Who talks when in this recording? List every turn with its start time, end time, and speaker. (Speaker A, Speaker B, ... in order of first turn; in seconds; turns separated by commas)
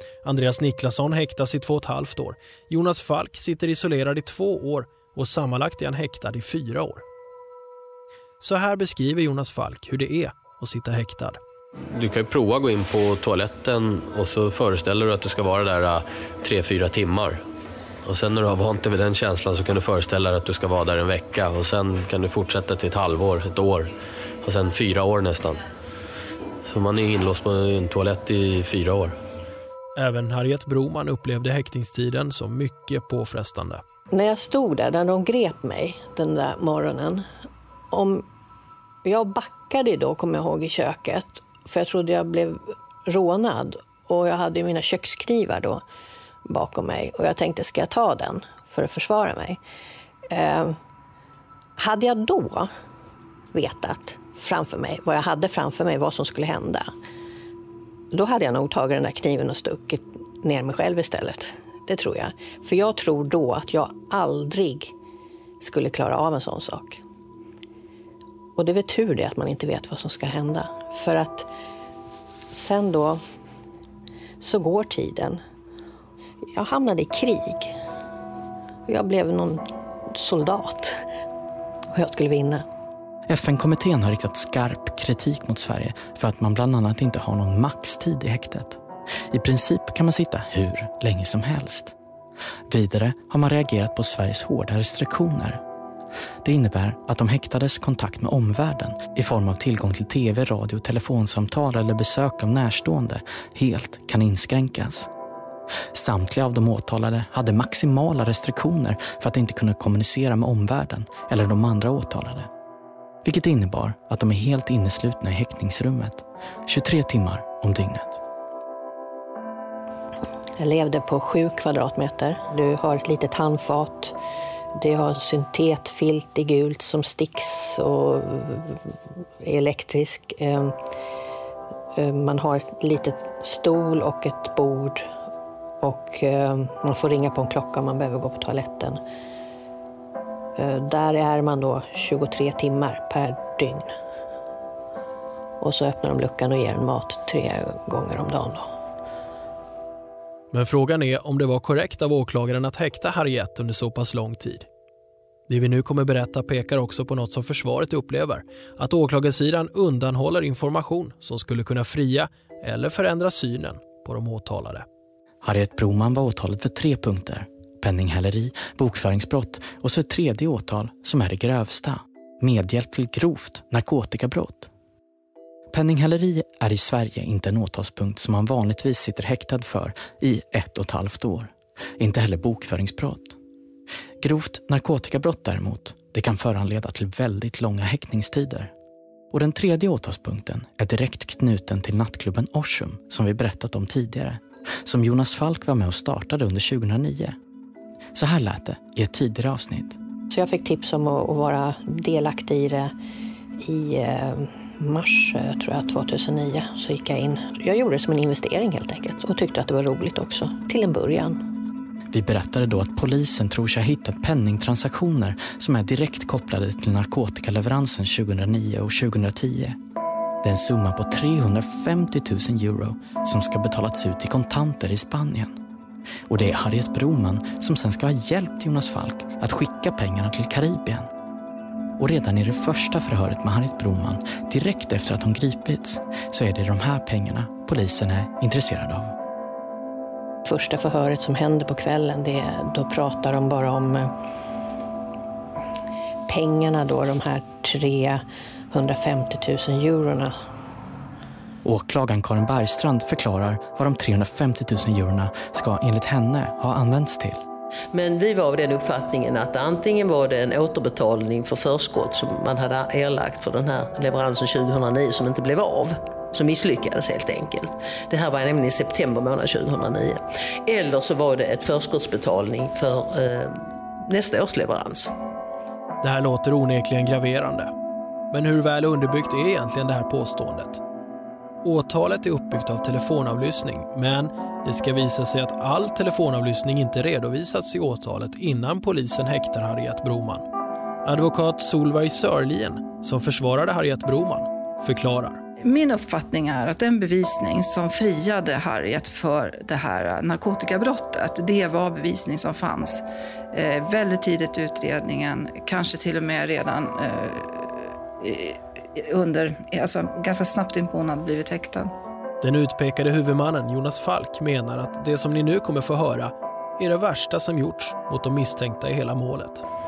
Speaker A: 0.2-7.0, Speaker A: 8.4-11.4, Speaker B: 11.8-17.4, Speaker B: 18.1-23.9, Speaker B: 24.4-25.6, Speaker B: 26.6-29.1, Speaker A: 30.0-33.8, Speaker C: 34.1-37.2, Speaker C: 37.9-38.2, Speaker C: 39.0-45.8, Speaker C: 46.5-49.6, Speaker C: 50.3-50.8, Speaker C: 51.8-52.7, Speaker C: 53.5-56.9, Speaker C: 58.1-64.9, Speaker C: 65.6-67.0, Speaker C: 68.5-71.5, Speaker C: 72.5-73.2, Speaker C: 74.4-75.4, Speaker C: 76.5-77.7, Speaker C: 78.9-81.0, Speaker C: 81.9-82.6, Speaker D: 83.3-91.9, Speaker D: 92.7-95.6, Speaker D: 96.4-105.1, Speaker D: 105.9-112.5, Speaker D: 113.2-118.2, Speaker C: 120.6-124.1, Speaker C: 124.8-128.8, Speaker C: 129.4-130.7, Speaker C: 132.0-135.1, Speaker C: 135.8-139.0, Speaker C: 140.6-143.9, Speaker C: 145.6-148.7, Speaker A: 150.5-154.7, Speaker A: 155.5-164.8, Speaker D: 165.4-174.7, Speaker D: 175.7-183.4, Speaker D: 184.2-188.7, Speaker D: 189.3-197.3, Speaker D: 198.1-200.0, Speaker C: 200.3-202.9, Speaker C: 203.6-211.4, Speaker D: 212.1-219.8, Speaker D: 220.4-225.6, Speaker D: 226.3-231.1, Speaker D: 232.0-239.1, Speaker C: 240.4-244.1, Speaker C: 246.3-250.3, Speaker D: 251.6-257.4, Speaker E: 257.9-273.6, Speaker E: 274.1-275.1, Speaker A: 276.0-277.7, Speaker A: 278.3-280.8, Speaker A: 281.6-290.4, Speaker A: 291.0-295.4, Speaker F: 295.6-311.9, Speaker A: 312.4-319.6